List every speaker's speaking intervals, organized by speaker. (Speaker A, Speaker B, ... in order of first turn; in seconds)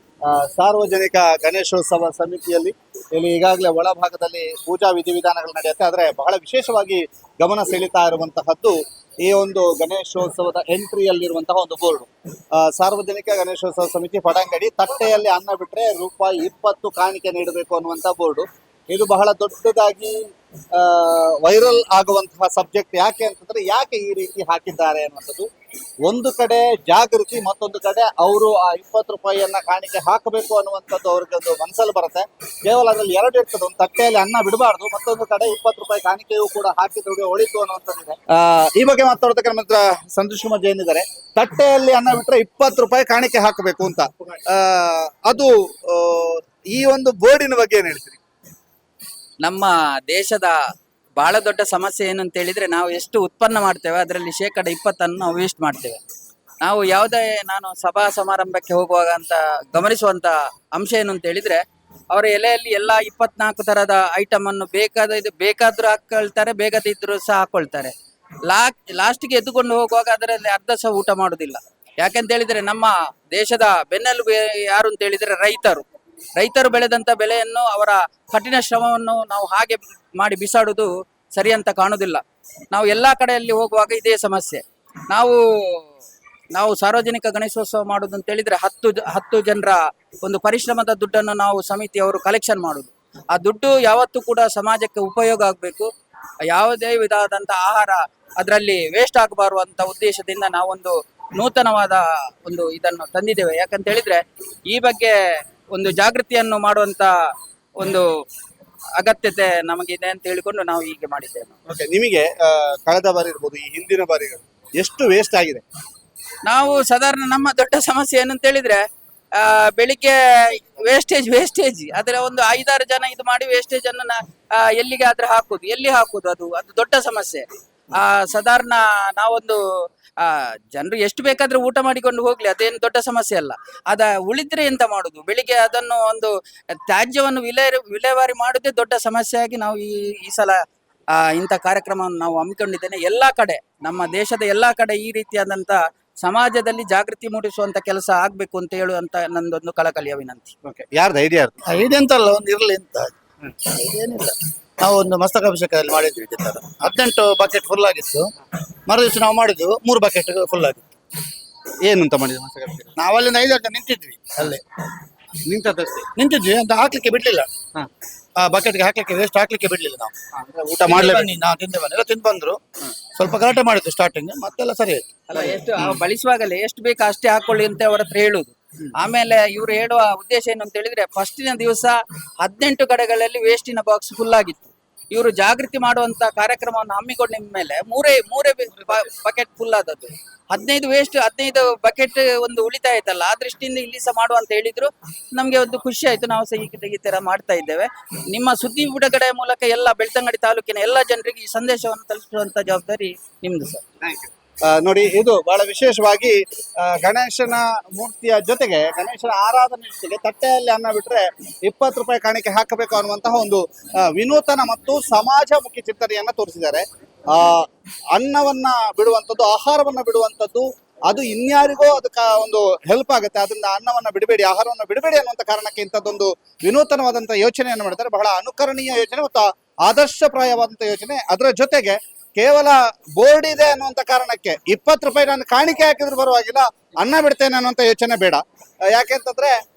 Speaker A: 0.3-12.1, 12.6-20.2, 20.7-25.5, 26.1-48.2, 111.7-115.6, 150.7-151.6, 161.9-163.0, 170.4-171.3, 204.0-239.5
Speaker B: 49.4-50.5, 51.2-56.0, 56.6-61.6, 62.1-67.9, 68.5-75.8, 76.4-85.8, 86.5-95.9, 96.5-105.2, 105.7-107.1, 107.8-108.1, 109.0-111.5, 116.5-118.8, 119.4-129.6, 130.2-136.3, 136.9-140.6, 141.2-150.6, 175.3-203.8
Speaker C: 151.6-158.3, 158.9-160.9, 163.0-164.6, 165.5-167.7, 168.4-170.3, 170.8-175.4